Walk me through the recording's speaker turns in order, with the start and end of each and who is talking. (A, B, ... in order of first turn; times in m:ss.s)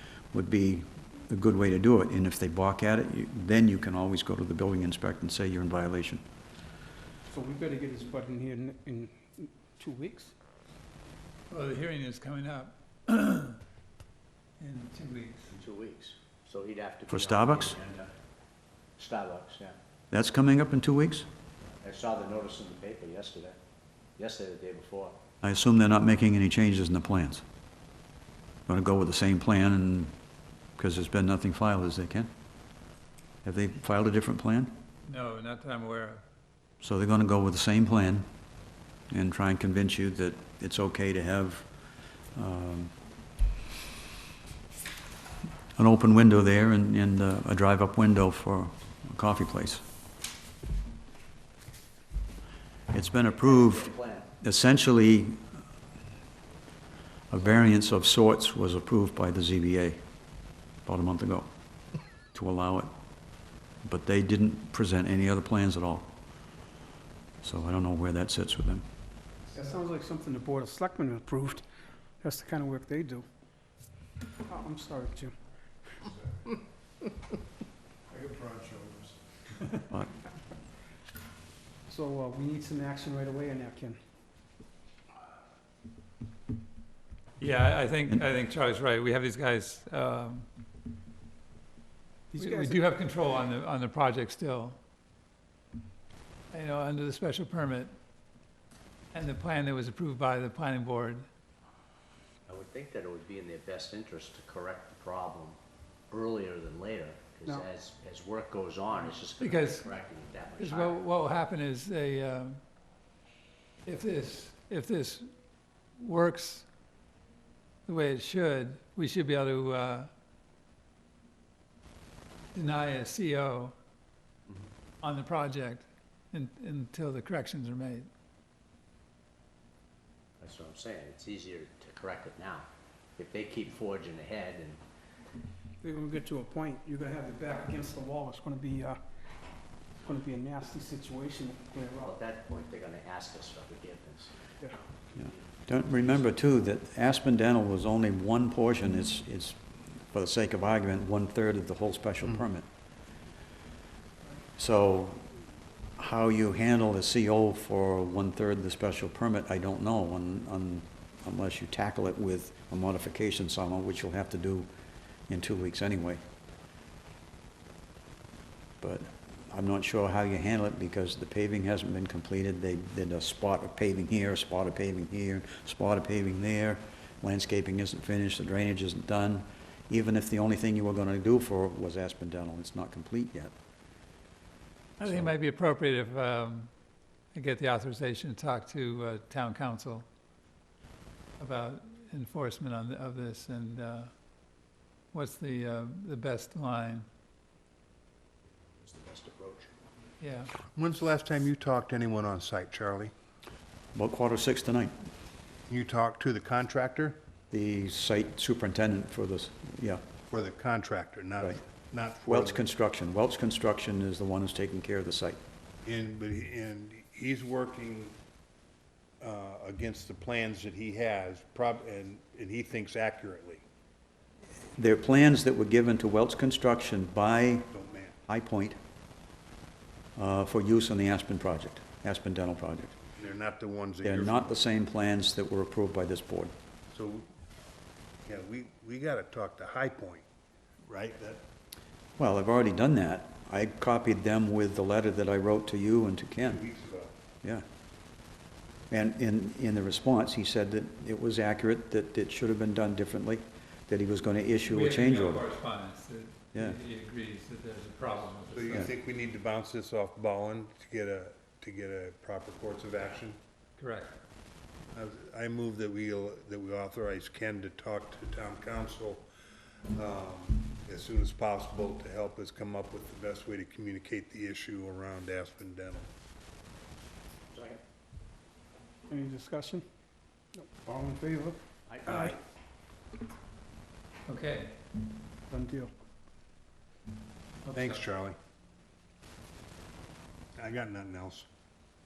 0:00.3-0:06.2 A
0:07.3-0:10.3 B
0:11.5-0:13.6 C
0:14.6-0:15.5 C
0:15.5-0:18.1 D
0:17.1-0:17.8 A
0:19.0-0:19.8 D
0:20.1-0:21.3 A
0:21.8-0:23.6 D
0:24.2-0:25.2 D
0:25.4-0:27.4 A
0:28.7-0:30.1 A
0:30.8-0:32.3 A
0:33.4-0:34.7 A
0:35.0-0:36.2 C
0:36.8-0:38.3 A
0:39.1-0:41.7 A
0:42.3-0:42.9 A
0:45.8-0:49.8 A
0:52.9-0:55.4 A
0:53.2-0:54.3 D
0:57.3-1:00.0 A
1:00.8-1:01.5 A
1:02.3-1:02.9 A
1:03.8-1:06.1 A
1:07.4-1:08.8 A
1:09.5-1:11.6 B
1:12.2-1:13.2 B
1:14.5-1:15.3 B
1:18.4-1:18.9 E
1:21.9-1:24.0 B
1:27.4-1:30.4 C
1:32.3-1:32.8 B
1:32.4-1:34.8 C
1:36.5-1:37.9 C
1:39.1-1:41.2 C
1:42.5-1:45.6 D
1:46.1-1:51.0 D
1:49.4-1:49.8 C
1:50.6-1:52.6 C
1:53.8-1:55.3 C
1:56.0-1:56.6 C
1:57.8-2:00.1 C
2:02.5-2:03.7 C
2:05.0-2:08.1 C
2:10.4-2:14.8 D
2:15.8-2:19.0 B
2:20.0-2:22.1 B
2:22.0-2:24.3 D
2:25.2-2:25.4 D
2:25.2-2:29.6 A
2:30.1-2:32.7 A
2:34.6-2:35.3 A
2:36.0-2:44.7 A
2:45.3-2:46.2 A
2:48.8-3:03.5 A
3:05.0-3:06.7 C
3:05.0-3:05.3 A
3:07.3-3:10.0 C
3:11.4-3:14.1 C
3:15.1-3:17.1 C
3:19.1-3:19.5 E
3:20.2-3:20.5 C
3:20.7-3:23.1 E
3:23.9-3:24.9 A
3:25.7-3:27.2 E
3:27.5-3:30.0 A
3:30.3-3:32.6 E
3:32.2-3:35.4 A
3:35.8-3:38.1 E
3:39.2-3:43.6 E
3:44.8-3:47.7 A
3:47.7-3:48.2 E
3:48.3-3:48.8 A
3:50.2-3:52.9 A
3:53.2-3:54.6 E
3:54.0-3:56.5 A
3:56.9-3:57.3 E
3:58.2-4:00.2 E
4:00.8-4:01.4 E
4:02.2-4:06.6 A
4:06.5-4:07.1 E
4:08.9-4:15.4 A
4:14.7-4:18.9 C
4:18.5-4:23.4 E
4:23.8-4:24.1 C
4:24.9-4:29.2 E
4:29.9-4:36.1 E
4:37.5-4:37.8 D
4:39.1-4:39.8 B
4:40.5-4:42.4 B
4:41.9-4:42.2 D
4:42.1-4:42.4 E
4:44.3-4:44.8 C
4:45.5-4:45.9 B
4:47.6-4:48.0 C
4:47.7-4:48.4 E
4:50.6-4:51.5 E